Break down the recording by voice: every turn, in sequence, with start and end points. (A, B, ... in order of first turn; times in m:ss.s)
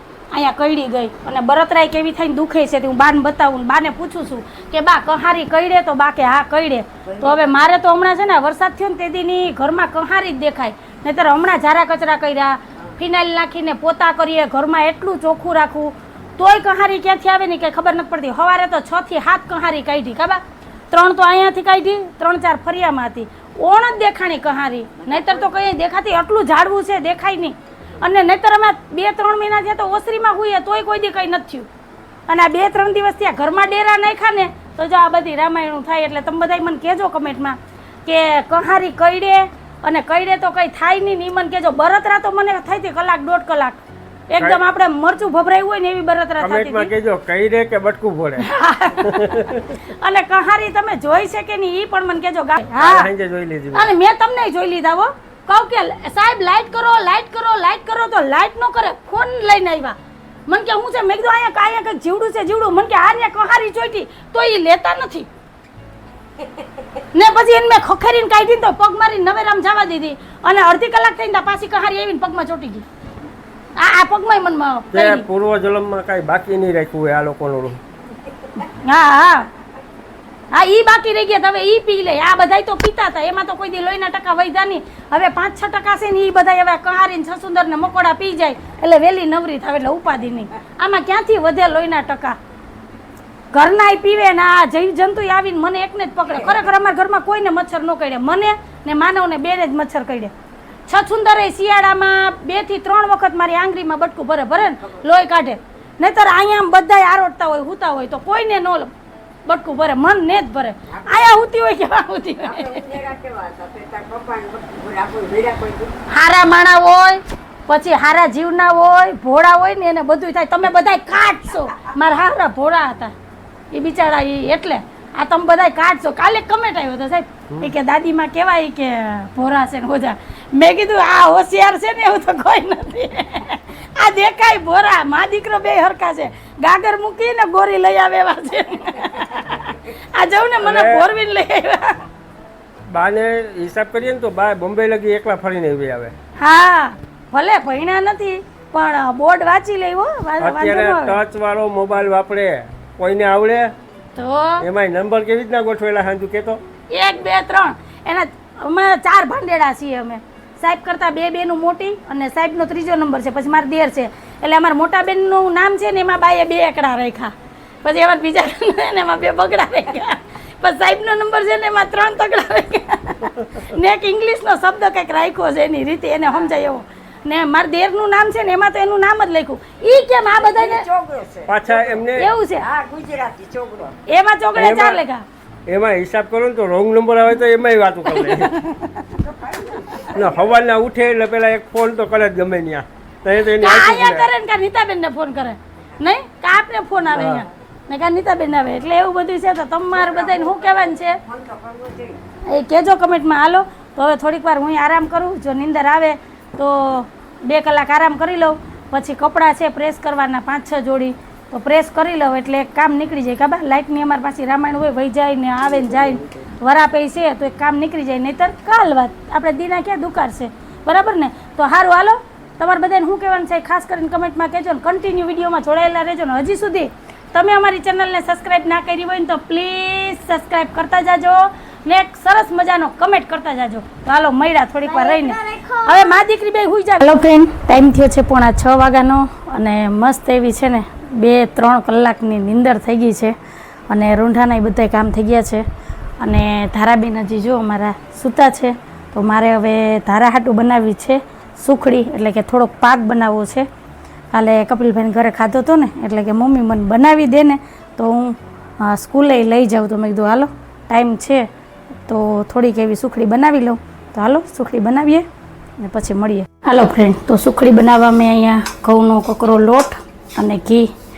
0:00.3-0:31.7 A
0:07.0-0:07.5 B
0:25.0-0:25.5 B
0:32.3-0:46.9 A
0:46.4-0:48.5 C
0:48.4-0:53.1 A
0:49.0-0:49.7 C
0:52.8-0:53.9 C
0:53.7-1:00.0 A
1:00.5-1:05.3 A
1:07.1-1:12.8 A
1:13.8-1:15.3 A
1:14.9-1:17.8 C
1:18.6-1:19.5 A
1:20.5-1:32.4 A
1:33.5-1:40.3 A
1:36.3-1:36.7 B
1:40.9-1:48.9 A
1:44.8-1:45.2 B
1:49.5-1:52.8 A
1:50.9-1:51.4 B
1:52.4-1:56.0 B
1:56.1-2:03.1 A
2:03.7-2:22.0 A
2:20.6-2:21.1 C
2:22.9-2:26.1 C
2:26.4-2:31.2 A
2:30.4-2:33.7 C
2:34.2-2:34.6 A
2:34.6-2:36.6 C
2:36.9-3:00.8 A
2:56.3-2:56.5 B
3:00.3-3:04.0 B
3:01.5-3:02.3 C
3:02.2-3:02.7 A
3:04.1-3:05.2 A
3:04.6-3:05.0 C
3:05.7-3:08.5 C
3:08.2-3:09.1 A
3:09.2-3:10.5 B
3:10.1-3:14.3 C
3:13.6-3:21.2 A
3:17.1-3:17.4 C
3:19.9-3:22.2 B
3:22.5-4:03.4 A
3:35.6-3:36.5 B
4:03.9-4:05.6 A
4:06.2-4:13.7 A
4:14.3-4:21.5 A
4:22.1-4:25.3 A
4:25.8-4:30.9 A